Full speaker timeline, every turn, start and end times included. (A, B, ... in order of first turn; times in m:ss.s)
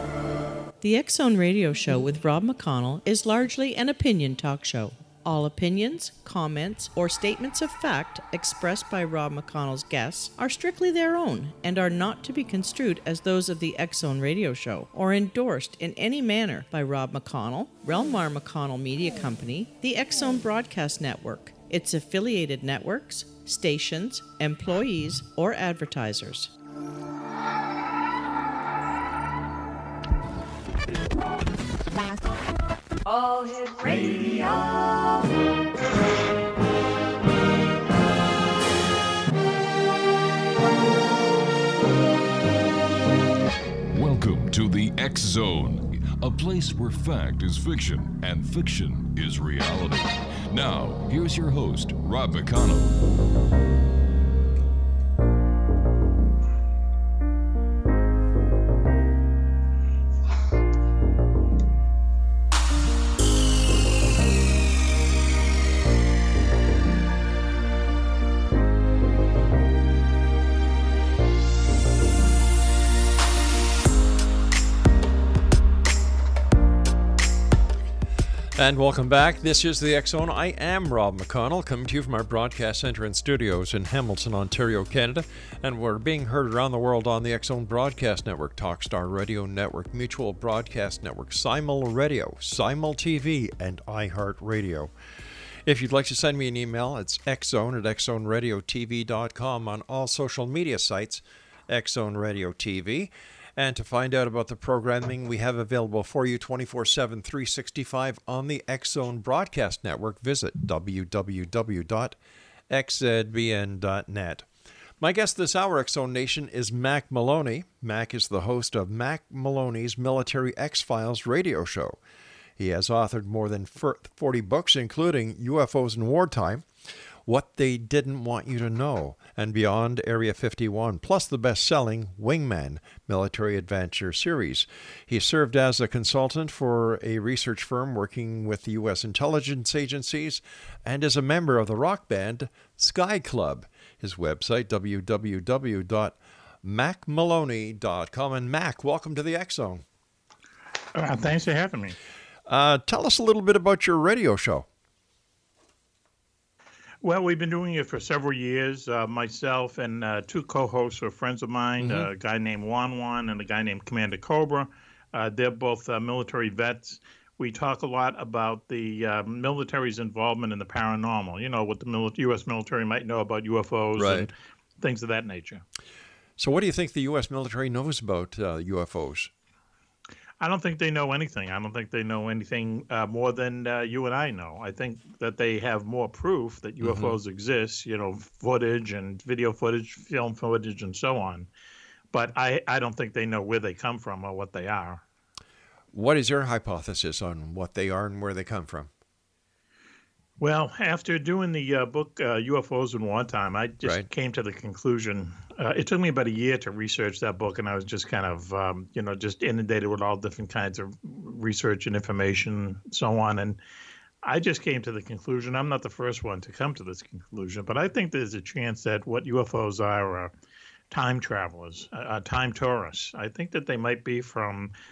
0:00.8-0:26.5 A
0:33.0-0:35.1 B
0:43.9-0:53.0 C
1:18.5-1:34.9 D
1:35.6-1:52.2 D
1:52.7-1:54.5 D
1:55.0-2:02.0 D
2:02.6-2:06.7 D
2:07.2-2:29.8 D
2:30.9-2:32.0 E
2:32.5-2:34.7 D
2:37.0-2:55.6 E
2:41.8-2:42.1 D
2:54.0-2:54.3 D
2:56.4-2:59.3 D
3:00.4-3:11.5 E
3:06.8-3:07.2 D
3:12.1-3:15.0 E
3:15.9-3:18.9 D
3:20.4-3:33.6 E
3:23.8-3:24.1 D
3:34.2-3:40.3 E
3:40.9-3:44.7 E